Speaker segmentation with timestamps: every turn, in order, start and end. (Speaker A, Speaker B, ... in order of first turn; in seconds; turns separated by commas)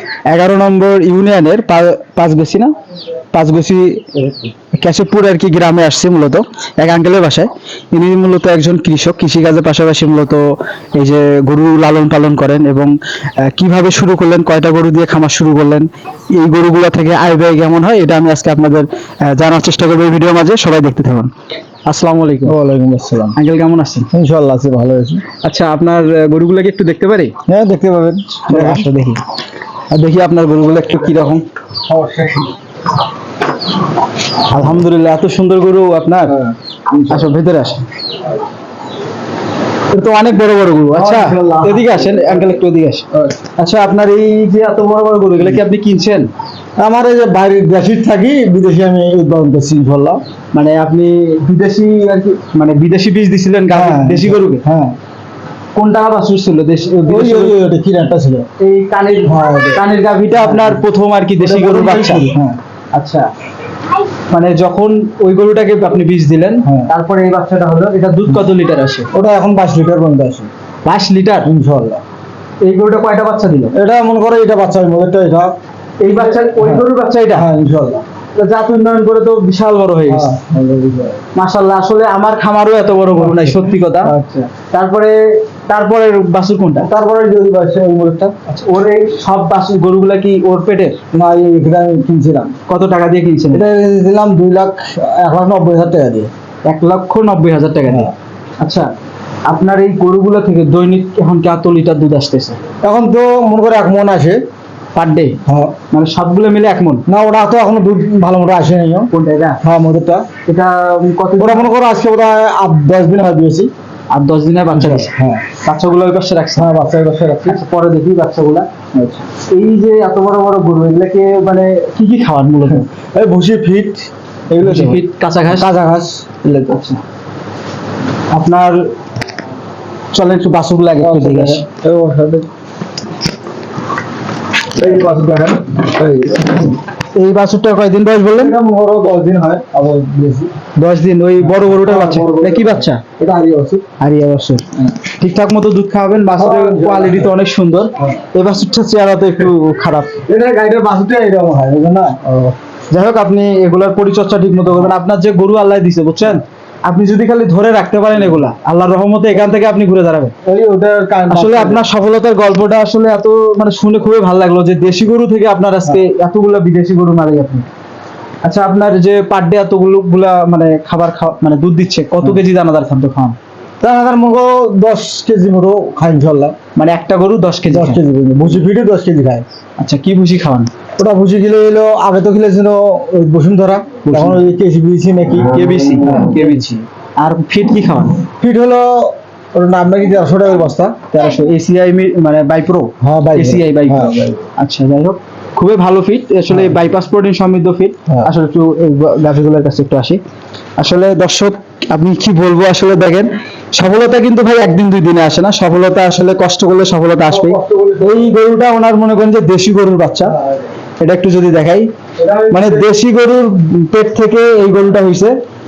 Speaker A: 0.3-2.7, Speaker A: 3.3-4.1, Speaker B: 4.1-4.5, Speaker A: 4.7-21.3, Speaker A: 21.9-22.5, Speaker B: 22.4-23.4, Speaker A: 23.3-24.1, Speaker B: 24.1-25.2, Speaker A: 25.4-27.3, Speaker B: 27.5-28.9, Speaker A: 28.5-29.2, Speaker A: 29.9-31.4, Speaker B: 31.9-32.5, Speaker A: 34.5-36.3, Speaker B: 36.3-37.3, Speaker A: 37.1-37.8, Speaker A: 39.9-43.0, Speaker B: 40.9-42.6, Speaker A: 43.6-46.3, Speaker B: 46.8-50.2, Speaker A: 50.5-54.6, Speaker B: 53.7-55.0, Speaker A: 55.7-57.6, Speaker B: 57.0-58.5, Speaker A: 58.6-62.3, Speaker B: 59.2-60.8, Speaker B: 61.4-62.6, Speaker A: 62.9-63.3, Speaker A: 64.3-69.1, Speaker B: 66.6-66.9, Speaker B: 69.1-70.5, Speaker A: 70.8-71.5, Speaker B: 71.4-72.0, Speaker A: 72.6-73.7, Speaker B: 73.7-75.5, Speaker A: 76.0-77.5, Speaker B: 76.4-78.0, Speaker A: 78.3-80.3, Speaker B: 80.1-81.2, Speaker A: 81.3-84.1, Speaker B: 83.2-84.5, Speaker A: 84.7-86.9, Speaker B: 86.8-88.3, Speaker A: 88.5-91.0, Speaker B: 91.1-92.5, Speaker A: 92.7-93.6, Speaker B: 93.5-96.3, Speaker A: 96.7-98.9, Speaker A: 99.5-102.6, Speaker B: 102.8-104.4, Speaker A: 104.9-105.4, Speaker B: 105.5-105.7, Speaker A: 105.9-107.0, Speaker B: 107.1-109.1, Speaker A: 109.1-109.6, Speaker B: 109.6-110.2, Speaker A: 110.5-111.7, Speaker B: 111.4-113.7, Speaker A: 114.1-116.7, Speaker B: 114.7-115.4, Speaker B: 116.6-117.6, Speaker A: 117.4-118.7, Speaker B: 118.9-119.2, Speaker A: 119.3-122.9, Speaker B: 122.7-126.8, Speaker A: 124.6-125.7, Speaker A: 126.7-127.0, Speaker A: 128.3-128.9, Speaker A: 130.1-131.6, Speaker B: 131.0-132.5, Speaker B: 134.7-136.8, Speaker A: 137.1-138.5, Speaker B: 138.3-140.5, Speaker A: 140.8-143.0, Speaker B: 141.4-143.8, Speaker A: 144.0-150.2, Speaker B: 146.3-147.3, Speaker B: 150.2-152.5, Speaker A: 152.9-160.3, Speaker B: 160.4-161.8, Speaker A: 161.3-167.7, Speaker A: 168.4-173.3, Speaker B: 173.8-176.5, Speaker A: 176.8-178.0, Speaker B: 177.7-179.4, Speaker A: 179.8-180.7, Speaker B: 181.0-186.4, Speaker A: 184.0-184.4, Speaker A: 185.4-188.2, Speaker B: 188.4-191.0, Speaker A: 191.1-200.2, Speaker B: 193.0-194.3, Speaker B: 196.5-196.8, Speaker A: 200.8-210.3, Speaker B: 207.2-208.3, Speaker B: 210.3-210.6, Speaker A: 211.0-211.9, Speaker B: 212.2-212.9, Speaker A: 212.5-215.3